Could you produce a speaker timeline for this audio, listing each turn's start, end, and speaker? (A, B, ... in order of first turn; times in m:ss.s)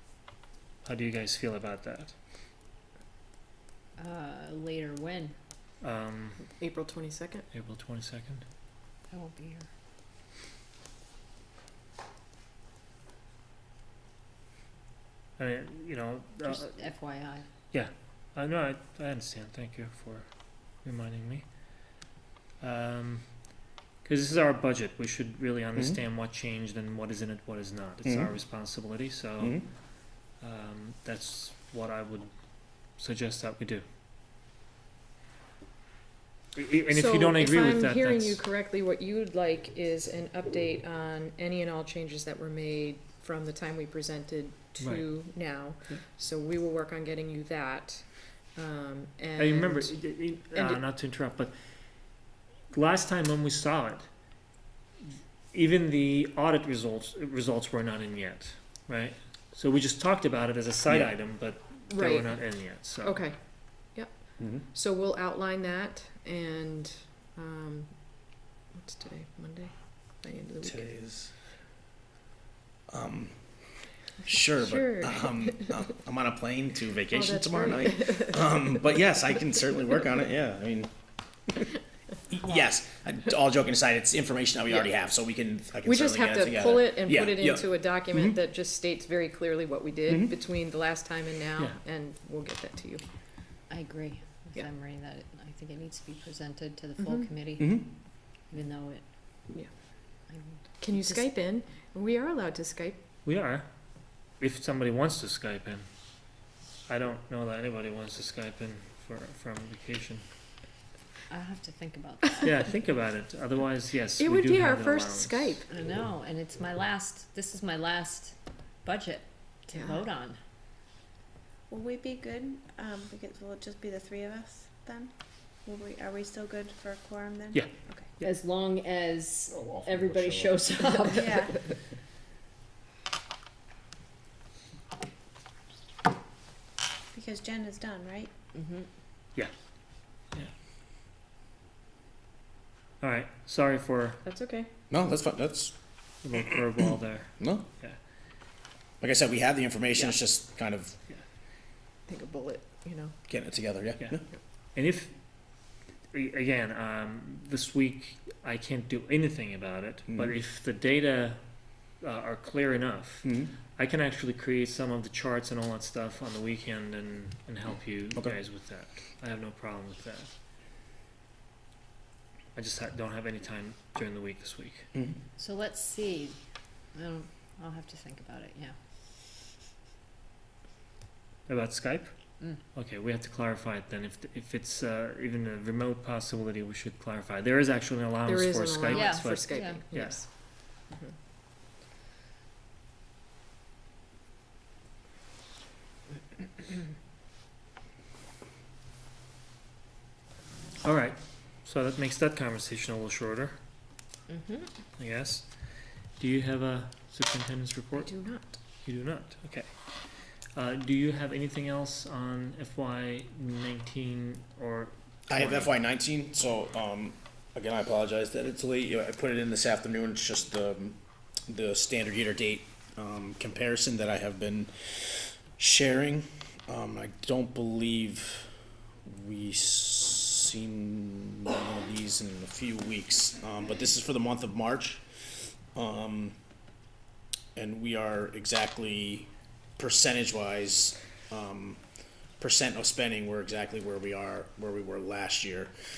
0:00.8-0:02.2 A
0:04.0-0:05.4 B
0:05.8-0:06.5 A
0:06.4-0:07.5 C
0:07.5-0:08.4 A
0:09.1-0:09.7 B
0:15.4-0:16.7 A
0:16.5-0:17.5 B
0:17.7-0:20.3 A
0:20.8-0:21.5 A
0:22.6-0:23.3 A
0:24.0-0:29.6 A
0:28.0-0:28.3 D
0:29.4-0:29.6 D
0:30.4-0:32.3 A
0:33.0-0:33.8 A
0:36.6-0:38.4 A
0:36.9-0:50.0 C
0:44.8-0:45.1 A
0:49.4-0:51.6 A
0:50.5-0:50.8 C
0:52.7-0:54.1 A
0:55.1-1:03.2 A
1:01.9-1:03.4 C
1:03.9-1:07.9 C
1:04.4-1:04.6 D
1:08.7-1:10.9 C
1:10.6-1:11.3 D
1:12.9-1:13.4 D
1:14.3-1:20.9 D
1:14.4-1:15.7 C
1:17.1-1:18.4 C
1:22.3-1:28.4 D
1:25.9-1:33.0 C
1:30.1-1:30.3 D
1:33.7-1:37.9 B
1:37.0-1:37.3 C
1:37.6-1:37.9 D
1:38.5-1:39.0 B
1:40.3-1:41.3 B
1:40.8-1:43.0 C
1:43.2-1:43.7 A
1:44.4-1:45.9 A
1:46.9-1:50.2 A
1:51.3-1:52.5 B
1:52.4-1:55.6 A
1:54.2-1:55.7 C
1:55.7-2:00.4 B
1:59.7-2:00.0 C
2:01.7-2:05.1 E
2:05.6-2:08.1 E
2:08.2-2:11.7 B
2:11.1-2:11.5 E
2:17.1-2:18.3 E
2:18.6-2:18.9 B
2:23.0-2:24.2 A
2:24.2-2:24.7 C
2:24.9-2:25.8 D
2:26.2-2:28.0 A
2:27.4-2:27.7 D
2:29.0-2:31.0 D
2:32.1-2:33.2 C
2:33.3-2:34.2 D
2:34.8-2:35.2 A
2:36.1-2:41.4 A
2:40.1-2:40.4 D
2:42.0-2:50.3 A
2:43.2-2:43.5 D
2:52.6-2:54.9 A
2:54.9-2:55.2 D
2:55.4-2:56.4 B
2:57.0-2:58.8 B
3:01.5-3:02.1 A
3:02.7-3:10.2 A
3:08.3-3:10.3 C
3:08.9-3:09.8 B
3:20.8-3:23.6 A
3:24.3-3:24.7 B
3:25.0-3:25.5 A
3:26.2-3:28.1 A
3:28.0-3:28.6 C
3:28.8-3:29.8 A
3:30.5-3:35.7 A
3:35.3-3:48.5 D
3:49.0-3:56.4 D
3:57.6-4:01.8 D
4:02.4-4:05.7 D